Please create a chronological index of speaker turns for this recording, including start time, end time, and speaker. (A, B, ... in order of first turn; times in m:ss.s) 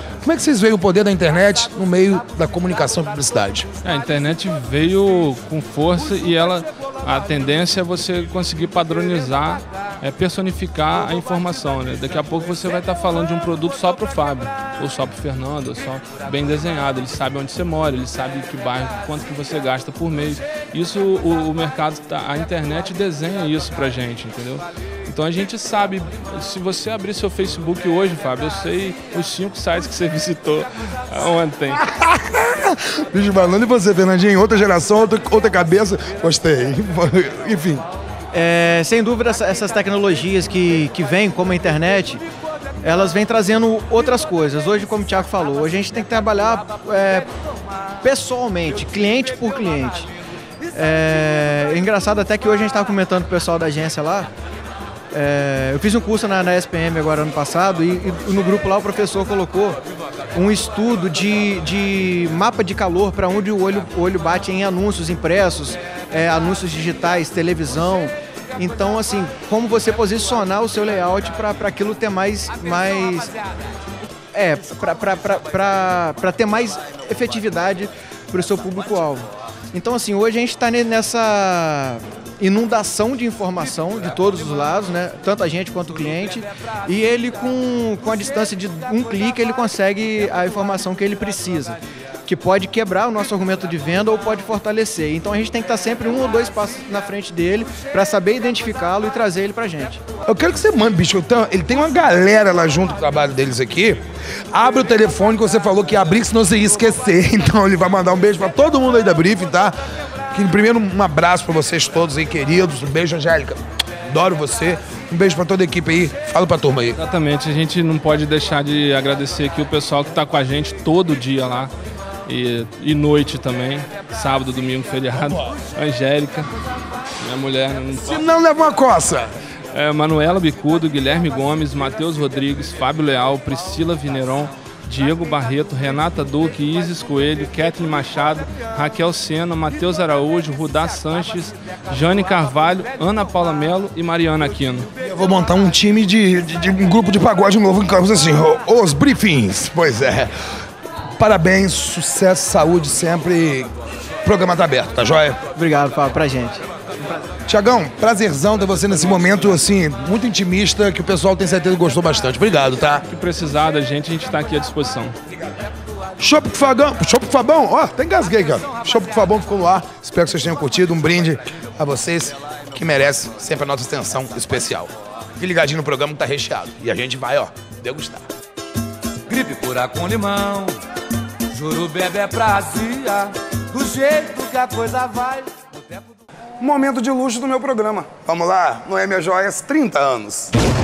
0:00.2-0:03.7 A
0:03.8-0:31.8 B
0:31.7-0:37.9 A
0:38.3-0:42.2 C
0:42.8-0:47.3 C
0:48.0-0:50.1 C
0:50.7-0:54.3 C
0:55.1-0:59.8 C
1:00.3-1:13.3 C
1:14.3-1:40.0 C
1:40.3-1:49.8 A
1:50.3-1:57.0 A
1:57.0-2:01.7 B
2:02.3-2:06.5 B
2:07.2-2:08.2 B
2:08.0-2:09.4 A
2:09.7-2:24.9 B
2:25.0-2:30.3 A
2:31.2-2:33.7 A
2:34.2-2:35.4 A
2:35.6-2:36.6 C
2:37.5-2:43.0 A
2:43.1-2:45.2 B
2:46.2-2:58.3 A
2:59.3-3:00.8 D
3:01.5-3:06.1 D
3:06.6-3:10.5 A